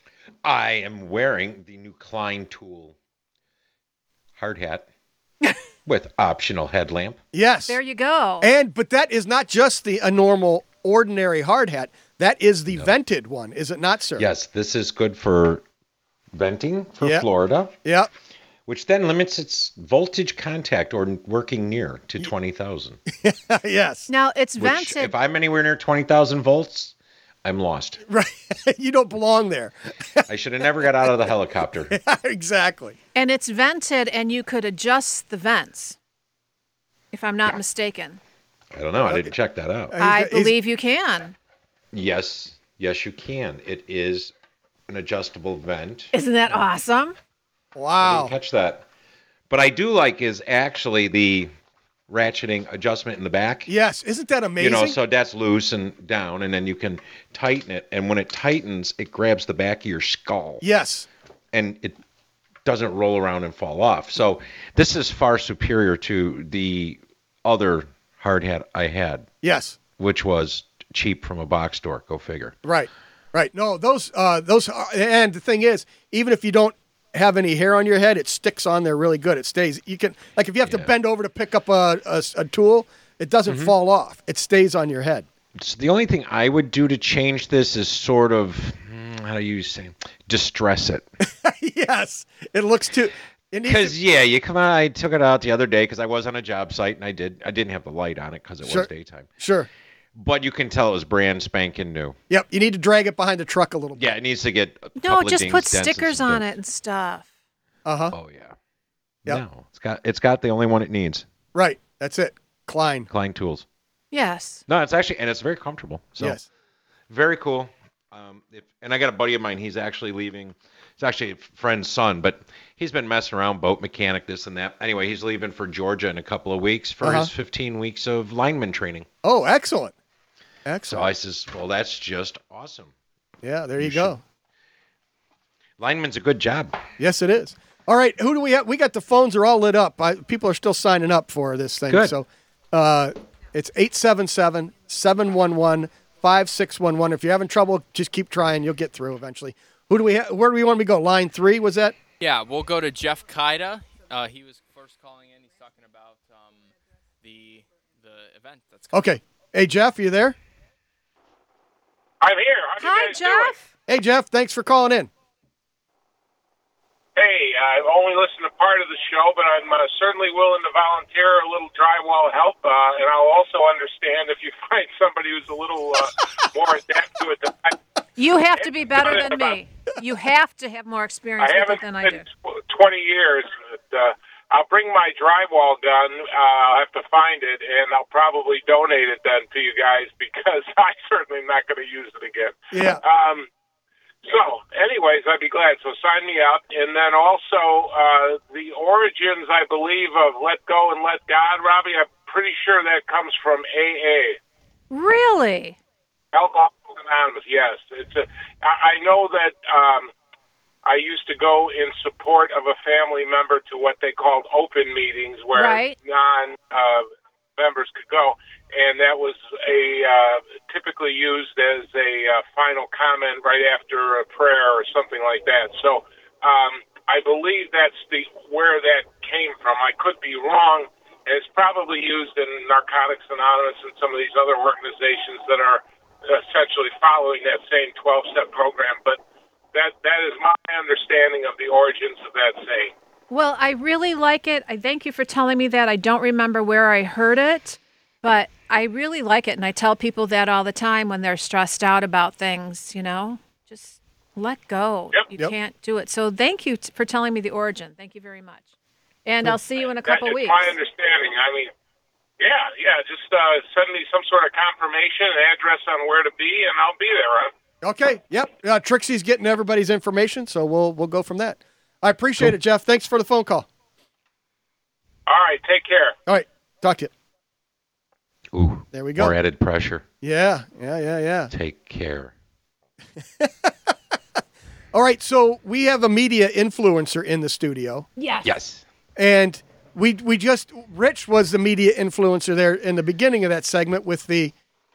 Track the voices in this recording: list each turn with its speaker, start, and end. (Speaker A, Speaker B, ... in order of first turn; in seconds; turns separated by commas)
Speaker A: 0.4-2.9, Speaker A: 4.4-4.8, Speaker A: 5.8-7.2, Speaker B: 7.3-7.8, Speaker C: 7.7-8.5, Speaker B: 8.4-14.3, Speaker A: 14.2-15.6, Speaker A: 16.3-17.8, Speaker B: 17.0-17.2, Speaker B: 17.8-18.1, Speaker A: 18.7-23.0, Speaker B: 23.1-24.1, Speaker C: 24.1-25.1, Speaker A: 24.6-28.0, Speaker B: 28.1-30.3, Speaker A: 30.3-31.9, Speaker B: 30.8-31.1, Speaker B: 31.9-33.0, Speaker C: 33.1-36.0, Speaker C: 37.1-38.2, Speaker A: 38.7-39.9, Speaker B: 39.0-39.3, Speaker B: 39.9-40.5, Speaker C: 40.0-41.3, Speaker A: 41.9-44.3, Speaker A: 44.9-46.1, Speaker C: 46.1-47.1, Speaker B: 47.8-48.3, Speaker A: 48.0-48.8, Speaker A: 49.5-51.5, Speaker A: 52.1-53.7, Speaker B: 53.7-55.0, Speaker A: 54.6-60.6, Speaker B: 60.6-61.1, Speaker A: 61.5-62.0, Speaker A: 62.6-69.3, Speaker B: 69.4-69.8, Speaker A: 70.0-72.5, Speaker B: 72.6-85.3, Speaker A: 83.5-83.7, Speaker A: 85.5-91.0, Speaker B: 91.3-94.0, Speaker A: 93.6-99.3, Speaker B: 98.6-99.7, Speaker A: 100.1-102.2, Speaker B: 102.3-104.1, Speaker A: 104.0-106.4, Speaker C: 105.0-107.3, Speaker B: 107.8-108.2, Speaker A: 108.1-108.5, Speaker A: 109.2-111.2, Speaker B: 111.5-113.1, Speaker A: 113.1-113.6, Speaker C: 114.1-114.6, Speaker A: 114.7-116.4, Speaker B: 116.2-116.4, Speaker A: 117.1-129.1, Speaker B: 127.0-127.3, Speaker B: 129.2-129.9, Speaker B: 130.6-131.1, Speaker A: 130.9-132.9, Speaker B: 133.4-134.2, Speaker A: 133.8-134.1, Speaker A: 135.8-136.8, Speaker B: 137.0-151.9, Speaker A: 141.9-142.1, Speaker D: 152.2-159.0, Speaker B: 158.9-160.4, Speaker E: 162.2-163.5, Speaker C: 162.8-163.7, Speaker B: 163.9-165.1, Speaker E: 167.2-177.8, Speaker C: 178.2-182.2, Speaker E: 178.9-179.6, Speaker E: 181.4-193.5, Speaker B: 192.7-193.0, Speaker E: 194.2-204.4, Speaker C: 204.9-205.8, Speaker E: 206.3-210.1, Speaker E: 210.8-239.2, Speaker C: 215.5-215.9, Speaker E: 239.7-242.9, Speaker C: 243.3-258.7, Speaker C: 259.2-260.7, Speaker E: 260.0-261.7, Speaker E: 262.4-267.5, Speaker B: 267.8-273.7, Speaker E: 275.3-276.1, Speaker B: 276.3-277.1, Speaker A: 278.5-280.0, Speaker B: 278.9-279.3, Speaker B: 280.2-281.5, Speaker A: 281.5-282.3, Speaker B: 283.4-283.9, Speaker B: 284.9-288.1, Speaker C: 288.2-288.5, Speaker A: 288.4-288.8, Speaker B: 289.1-294.5